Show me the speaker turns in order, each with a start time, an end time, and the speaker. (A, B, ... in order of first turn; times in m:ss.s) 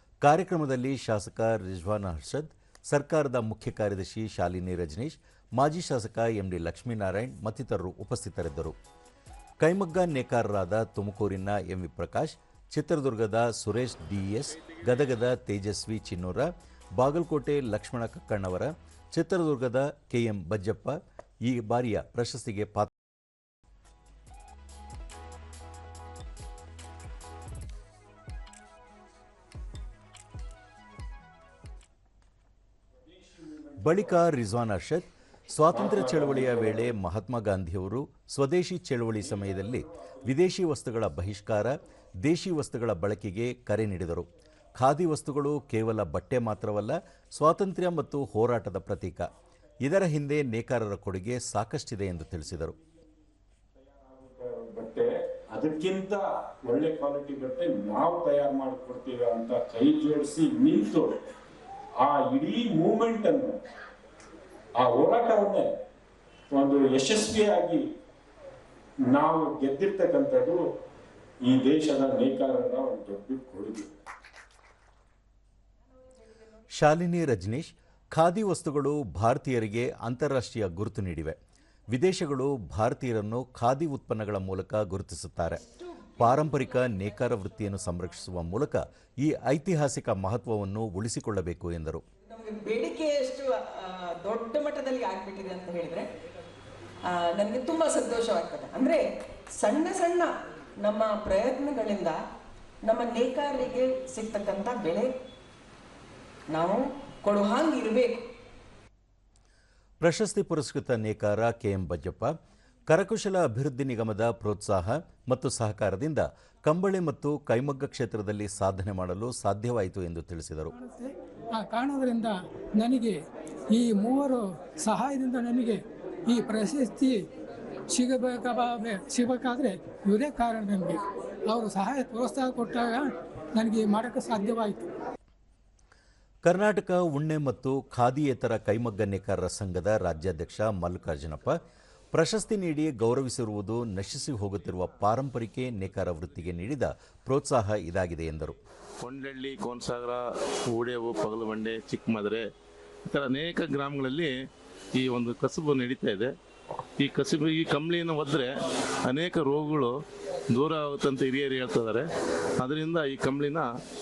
0:00.2-0:08.8 A
0:09.6-0:22.9 A
0:33.0-0:34.1 B
0:33.8-0:49.3 A
0:35.7-0:36.9 B
0:39.4-0:40.1 B
0:49.8-0:52.8 A
0:53.8-1:01.1 B
1:02.0-1:03.6 B
1:04.8-1:05.7 B
1:06.5-1:07.8 B
1:09.1-1:10.6 B
1:11.4-1:13.9 B
1:16.7-1:21.4 A
1:21.9-1:25.6 A
1:26.2-1:32.0 A
1:32.2-1:36.0 C
1:37.0-1:39.0 C
1:39.6-1:42.2 C
1:42.8-1:45.1 C
1:46.5-1:48.2 C
1:50.0-1:52.3 A
1:52.9-2:00.7 A
2:00.7-2:03.2 D
2:03.7-2:07.2 D
2:07.9-2:14.9 D
2:16.4-2:21.6 A
2:22.1-2:28.6 A
2:29.0-2:32.4 E
2:33.0-2:34.3 E
2:35.0-2:36.3 E
2:37.0-2:38.5 E
2:39.0-2:39.9 E
2:40.5-2:42.0 E
2:42.6-2:43.7 E